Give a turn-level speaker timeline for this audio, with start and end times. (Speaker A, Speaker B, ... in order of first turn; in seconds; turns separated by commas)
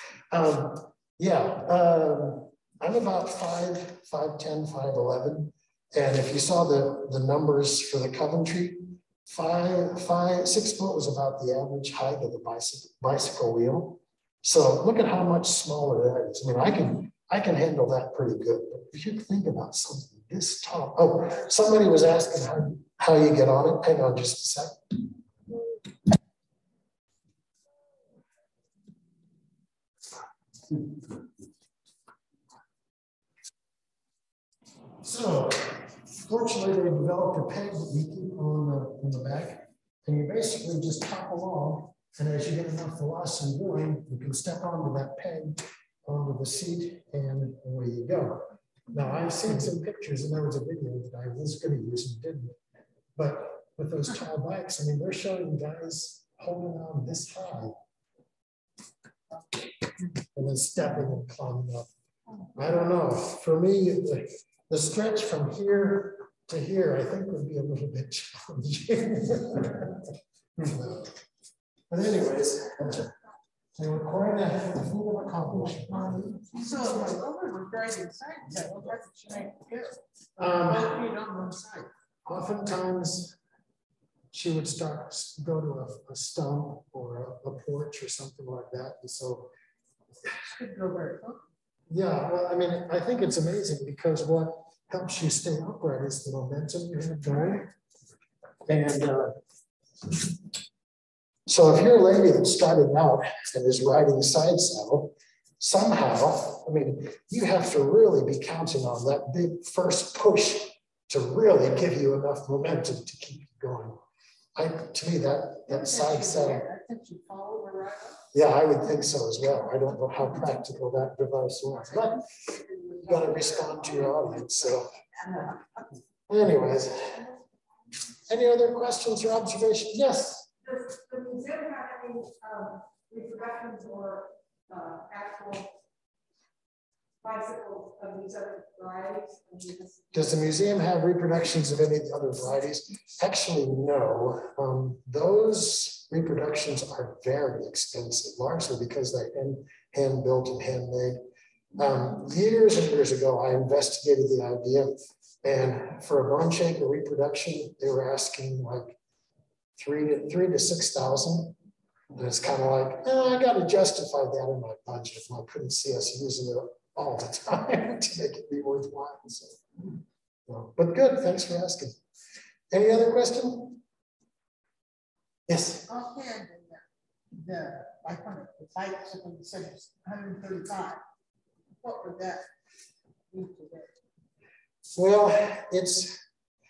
Speaker A: 0.3-24.8, Speaker A: 35.0-52.6, Speaker A: 53.2-57.8, Speaker A: 60.3-61.9, Speaker A: 62.6-70.0, Speaker A: 70.6-71.1, Speaker A: 71.9-73.1, Speaker A: 73.8-76.4, Speaker B: 76.4-80.0, Speaker A: 80.4-81.0, Speaker B: 80.7-81.9, Speaker A: 82.3-83.4, Speaker A: 84.3-89.5, Speaker B: 90.5-91.4, Speaker A: 91.9-97.7, Speaker A: 98.7-99.4, Speaker A: 101.5-114.0, Speaker A: 114.6-116.7, Speaker B: 115.7-118.2, Speaker A: 118.3-122.3, Speaker B: 122.6-125.8, Speaker A: 123.0-124.9, Speaker A: 126.3-127.3, Speaker A: 128.3-130.5, Speaker C: 130.7-135.7, Speaker C: 137.2-140.2, Speaker A: 140.1-151.2, Speaker A: 151.8-159.0, Speaker A: 159.8-161.6, Speaker A: 162.2-169.6, Speaker A: 170.5-172.0, Speaker A: 172.7-173.8, Speaker A: 175.5-175.9, Speaker B: 175.9-181.0, Speaker B: 181.8-182.4, Speaker B: 183.3-183.9, Speaker A: 184.9-186.2